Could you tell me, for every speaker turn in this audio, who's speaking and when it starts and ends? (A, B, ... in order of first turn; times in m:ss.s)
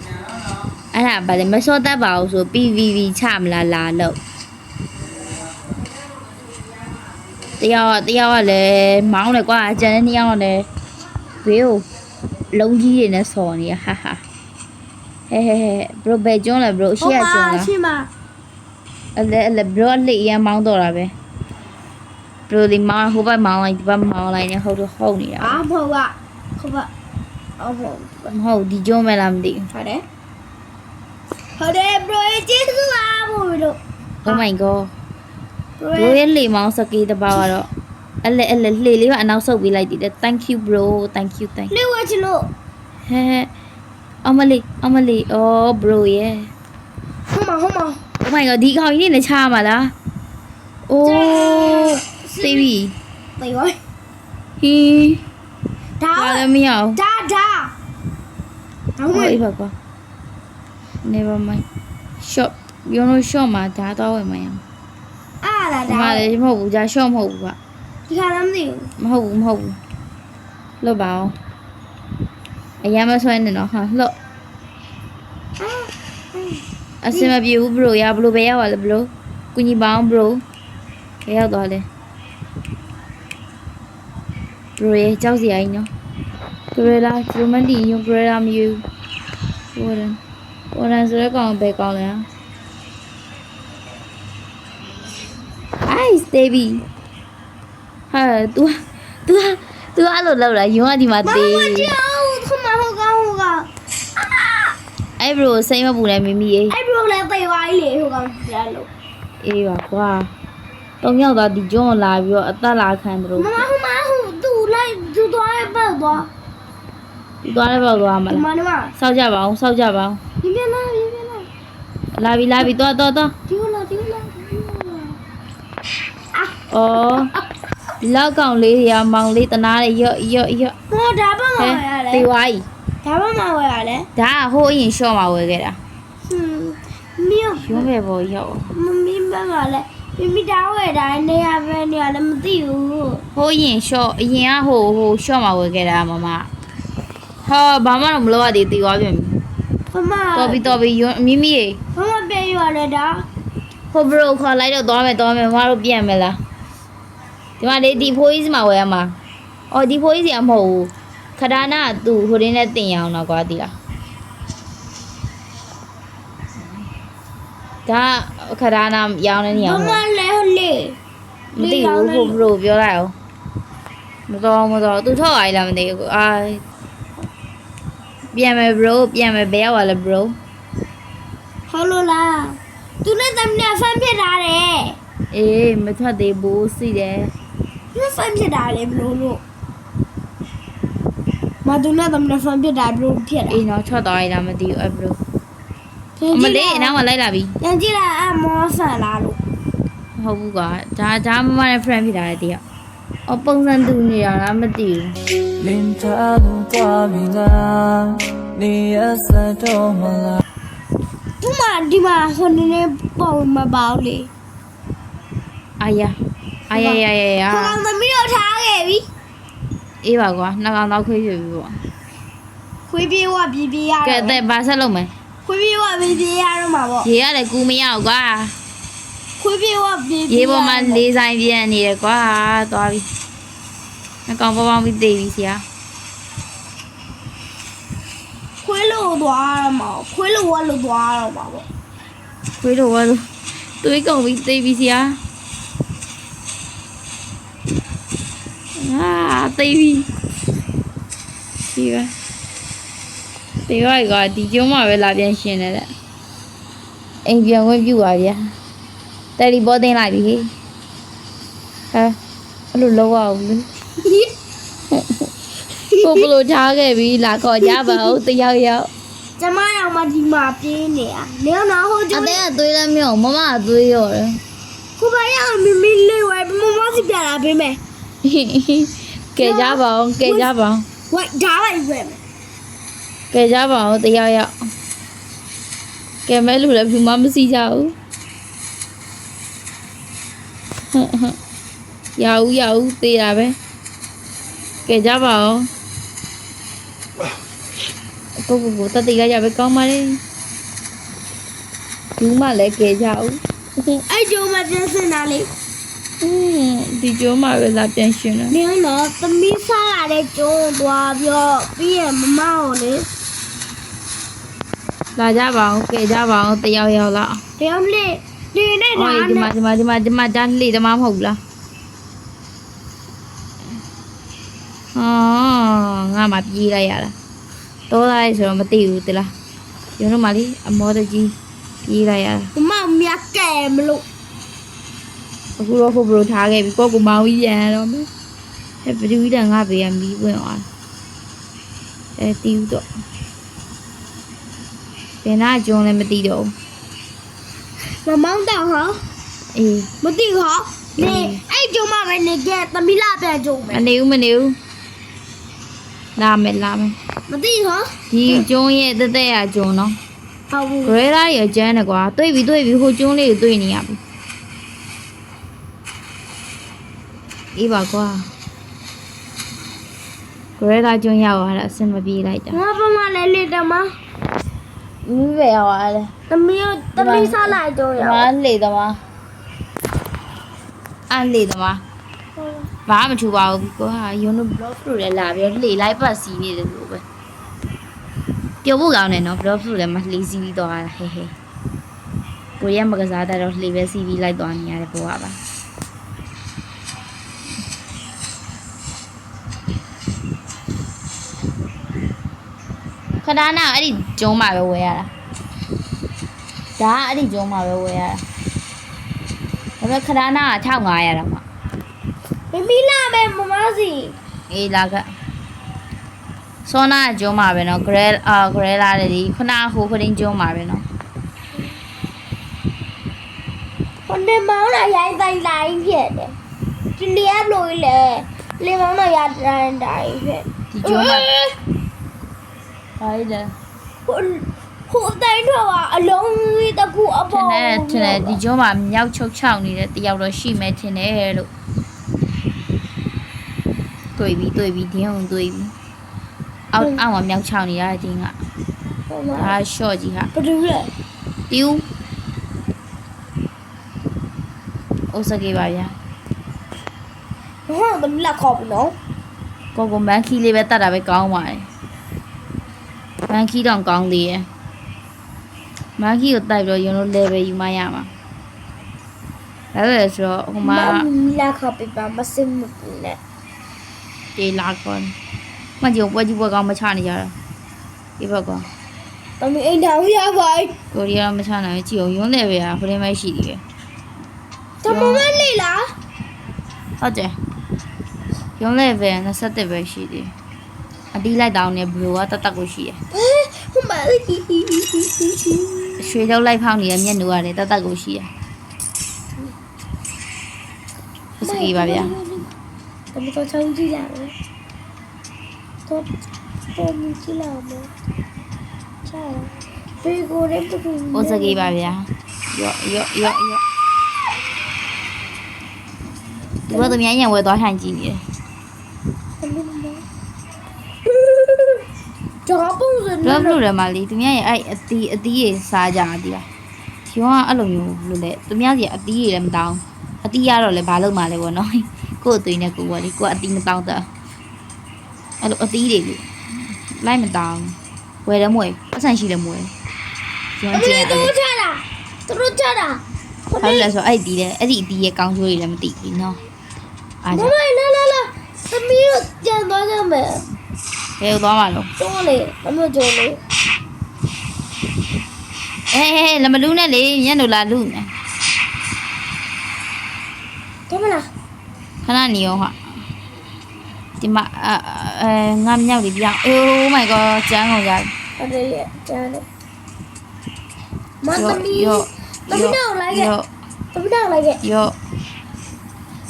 0:00.9-0:04.2 A
0:07.6-0:10.7 A
0:11.4-0:11.8 A
0:12.5-0:14.2 A
0:15.3-0:17.7 A
0:17.0-0:18.1 B
0:19.2-0:21.1 A
0:22.5-0:25.6 A
0:25.4-0:26.9 B
0:27.6-0:28.3 B
0:28.3-0:29.7 A
0:29.7-0:30.0 B
0:31.6-0:34.4 B
0:34.2-0:34.9 A
0:35.8-0:36.2 B
0:36.0-0:37.7 A
0:38.2-0:41.7 A
0:41.7-0:42.5 B
0:43.1-0:43.5 A
0:44.2-0:46.5 A
0:47.3-0:48.0 B
0:48.2-0:49.9 A
0:50.9-0:52.9 A
0:51.0-0:52.7 B
0:53.4-0:53.8 B
0:54.6-0:55.2 A
0:56.0-0:56.4 B
0:56.1-0:57.0 A
0:57.0-0:57.7 B
0:59.0-0:59.4 B
0:59.1-0:59.7 A
1:01.0-1:01.6 A
1:02.2-1:04.6 A
1:05.4-1:06.3 B
1:05.9-1:07.6 A
1:08.1-1:08.9 B
1:09.0-1:09.8 A
1:10.8-1:11.4 A
1:12.8-1:14.1 A
1:15.6-1:16.6 B
1:17.0-1:20.4 A
1:21.2-1:21.8 A
1:24.8-1:25.9 A
1:26.7-1:28.8 A
1:29.7-1:30.2 A
1:30.7-1:32.3 A
1:35.8-1:36.8 A
1:38.1-1:41.9 A
1:41.2-1:44.8 B
1:45.2-1:46.8 A
1:46.7-1:48.9 B
1:49.4-1:50.3 A
1:51.0-1:53.7 A
1:53.4-1:56.3 B
1:57.4-1:58.4 A
1:58.3-1:58.9 B
1:59.0-2:00.2 A
2:00.4-2:01.5 B
2:02.2-2:03.3 A
2:03.5-2:05.2 B
2:06.7-2:07.3 A
2:08.0-2:10.8 A
2:10.9-2:12.3 B
2:11.6-2:12.7 A
2:13.0-2:14.1 B
2:14.2-2:15.8 A
2:16.3-2:17.9 B
2:17.6-2:18.7 A
2:18.7-2:23.2 B
2:23.3-2:26.5 A
2:27.4-2:29.4 A
2:29.9-2:30.7 B
2:30.4-2:31.8 A
2:31.9-2:33.2 B
2:33.9-2:36.4 A
2:37.6-2:39.2 A
2:39.7-2:43.7 A
2:47.8-2:50.0 A
2:49.5-2:51.0 B
2:51.5-2:53.1 A
2:51.6-2:52.4 B
2:54.3-2:56.6 A
2:58.3-3:00.4 A
3:01.7-3:05.0 B
3:05.3-3:07.3 A
3:07.9-3:09.4 B
3:11.6-3:13.6 B
3:13.5-3:15.2 A
3:16.2-3:17.0 B
3:16.3-3:17.6 A
3:17.6-3:19.4 B
3:20.2-3:22.6 A
3:23.3-3:25.2 A
3:25.6-3:30.4 C
3:31.4-3:34.3 B
3:35.8-3:36.2 A
3:36.7-3:37.8 A
3:36.7-3:39.1 B
3:40.0-3:41.8 A
3:42.9-3:44.4 B
3:44.0-3:45.1 A
3:45.4-3:47.1 B
3:47.0-3:48.6 A
3:49.4-3:51.0 B
3:50.3-3:53.1 A
3:54.3-3:55.6 A
3:58.6-4:01.6 B
4:02.6-4:03.3 A
4:03.8-4:05.2 A
4:08.8-4:10.1 A
4:11.7-4:12.1 A
4:13.6-4:15.9 A
4:17.2-4:18.5 A
4:19.4-4:20.5 A
4:21.9-4:22.2 A
4:22.7-4:23.7 A
4:24.0-4:24.3 B
4:24.9-4:25.3 A
4:25.9-4:28.9 A
4:27.7-4:28.0 B
4:29.4-4:32.4 B
4:32.1-4:34.4 A
4:35.0-4:37.8 B
4:38.2-4:40.9 A
4:39.4-4:40.5 B
4:41.1-4:42.2 B
4:43.3-4:44.5 A
4:46.2-4:47.9 A
4:50.9-4:51.4 A
4:52.2-4:53.6 A
4:54.8-4:55.7 A
4:58.4-5:00.2 A
5:02.2-5:04.0 A
5:04.1-5:05.5 B
5:06.2-5:08.6 A
5:08.5-5:13.1 B
5:15.1-5:17.4 A
5:17.6-5:19.5 B
5:19.0-5:21.4 A
5:24.9-5:27.1 A
5:27.9-5:29.3 A
5:30.0-5:31.3 A
5:31.8-5:32.5 A
5:32.5-5:34.0 B
5:35.6-5:38.1 A
5:38.8-5:40.7 A
5:42.2-5:42.9 A
5:45.2-5:46.5 A
5:47.8-5:49.0 B
5:49.5-5:49.9 A
5:50.0-5:53.9 B
5:51.0-5:51.4 A
5:53.7-5:54.6 A
5:56.2-5:57.0 A
5:57.3-5:58.4 B
5:58.1-6:00.0 A
6:00.5-6:01.0 B
6:00.8-6:04.0 A
6:07.6-6:08.3 A
6:10.6-6:12.6 A
6:12.5-6:14.0 B
6:15.0-6:16.1 A
6:16.3-6:18.3 B
6:17.0-6:19.0 A
6:21.1-6:21.8 A
6:22.4-6:22.7 B
6:22.9-6:27.0 A
6:28.6-6:31.3 A
6:32.6-6:35.4 A
6:43.2-6:45.1 A
6:46.8-6:48.2 A
6:49.8-6:51.4 A
6:52.5-6:54.2 B
6:54.5-6:55.1 A
6:56.6-7:00.8 A
7:04.0-7:06.4 B
7:07.0-7:11.5 B
7:10.7-7:11.3 A
7:13.0-7:13.5 A
7:14.0-7:18.4 B
7:17.3-7:21.5 A
7:24.2-7:25.7 A
7:26.7-7:28.4 A
7:29.1-7:29.5 B
7:29.4-7:30.3 A
7:30.3-7:30.9 B
7:31.5-7:31.8 A
7:35.1-7:36.0 A
7:37.7-7:38.9 B
7:39.7-7:41.7 A
7:43.3-7:44.5 A
7:46.0-7:48.1 A
7:49.7-7:51.0 A
7:50.6-7:53.2 B
7:54.4-7:55.1 A
7:55.8-7:57.3 A
7:58.2-7:58.7 A
7:59.4-8:00.8 B
8:00.9-8:03.6 A
8:04.8-8:05.9 B
8:04.8-8:05.4 A
8:07.0-8:07.4 A
8:08.6-8:10.3 A
8:11.1-8:13.0 A
8:13.1-8:16.1 B
8:16.0-8:18.3 A
8:21.4-8:22.2 A
8:21.4-8:22.5 B
8:23.1-8:24.3 B
8:26.8-8:27.9 B
8:29.0-8:31.7 B
8:31.1-8:33.6 A
8:36.7-8:38.2 A
8:39.4-8:40.0 B
8:41.1-8:41.8 B
8:42.4-8:43.6 B
8:43.2-8:46.5 A
8:47.1-8:54.1 A
8:55.4-8:59.7 A
9:00.6-9:01.3 A
9:00.7-9:03.9 B
9:03.6-9:06.4 A
9:07.2-9:07.5 A
9:07.3-9:10.5 B
9:11.2-9:11.9 A
9:12.0-9:13.4 B
9:15.9-9:18.1 A
9:20.9-9:21.3 B
9:22.0-9:22.8 A
9:24.2-9:28.1 A
9:28.4-9:29.4 B
9:31.2-9:33.3 B
9:31.3-9:33.5 A
9:33.9-9:34.6 B
9:34.6-9:34.9 A